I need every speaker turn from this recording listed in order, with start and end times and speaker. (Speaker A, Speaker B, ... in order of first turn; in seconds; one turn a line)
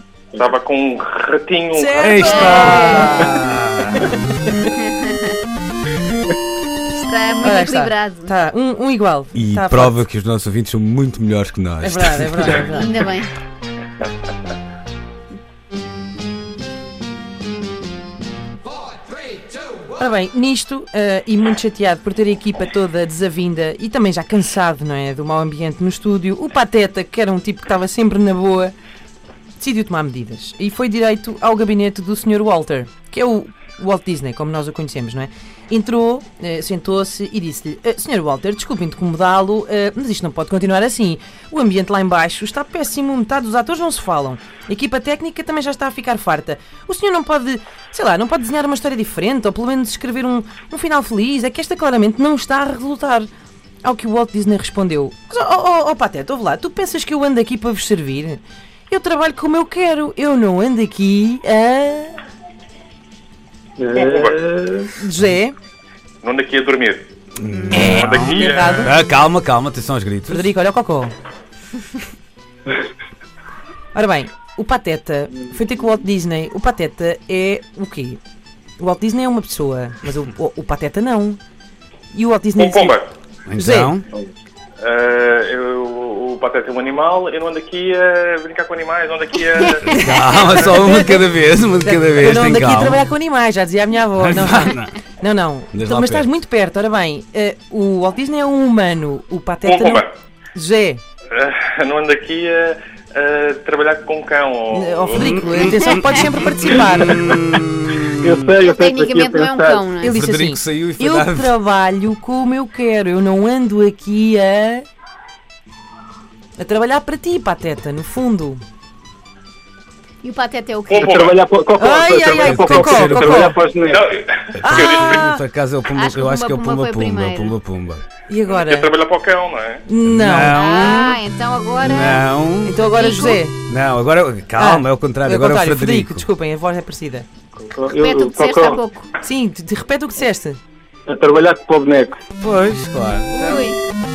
Speaker A: 0.3-2.8
Speaker B: 1.7-3.5
Speaker C: 2.0-4.1
Speaker D: 2.2-3.1
Speaker D: 4.8-5.3
Speaker D: 6.9-8.3
Speaker B: 7.4-10.0
Speaker C: 9.3-12.7
Speaker B: 11.8-12.9
Speaker D: 12.7-13.3
Speaker B: 19.9-28.8
Speaker B: 29.6-53.3
Speaker B: 53.8-62.2
Speaker E: 63.8-64.9
Speaker A: 63.9-64.4
Speaker B: 65.0-65.5
Speaker A: 66.2-67.1
Speaker C: 67.4-70.5
Speaker A: 67.7-68.9
Speaker B: 67.7-69.0
Speaker B: 70.3-71.1
Speaker B: 73.9-78.2
Speaker B: 78.8-81.4
Speaker B: 82.1-83.0
Speaker A: 82.6-83.1
Speaker C: 83.5-84.1
Speaker B: 83.6-83.9
Speaker A: 84.8-90.8
Speaker C: 89.8-93.1
Speaker B: 89.9-91.2
Speaker B: 91.8-100.0
Speaker C: 94.2-95.0
Speaker C: 95.7-96.3
Speaker A: 99.6-100.1
Speaker B: 100.5-101.0
Speaker A: 101.3-105.8
Speaker B: 104.7-107.3
Speaker C: 105.2-108.5
Speaker E: 108.2-109.9
Speaker D: 108.6-110.1
Speaker C: 110.0-111.5
Speaker B: 110.0-114.9
Speaker B: 116.6-118.6
Speaker D: 120.2-121.2
Speaker A: 120.9-121.4
Speaker E: 120.9-124.1
Speaker B: 121.8-123.6
Speaker C: 122.3-123.5
Speaker A: 123.8-125.4
Speaker C: 124.6-128.0
Speaker B: 124.6-125.4
Speaker D: 125.9-127.5
Speaker B: 128.3-128.9
Speaker A: 128.5-129.8
Speaker B: 129.9-131.1
Speaker C: 130.1-131.2
Speaker D: 130.5-132.3
Speaker C: 131.8-132.8
Speaker B: 132.6-133.6
Speaker D: 132.9-133.4
Speaker C: 133.7-136.3
Speaker B: 134.6-137.3
Speaker E: 137.6-138.8
Speaker D: 137.9-139.1
Speaker B: 139.2-140.6
Speaker E: 141.1-142.2
Speaker C: 142.4-143.7
Speaker D: 143.5-143.8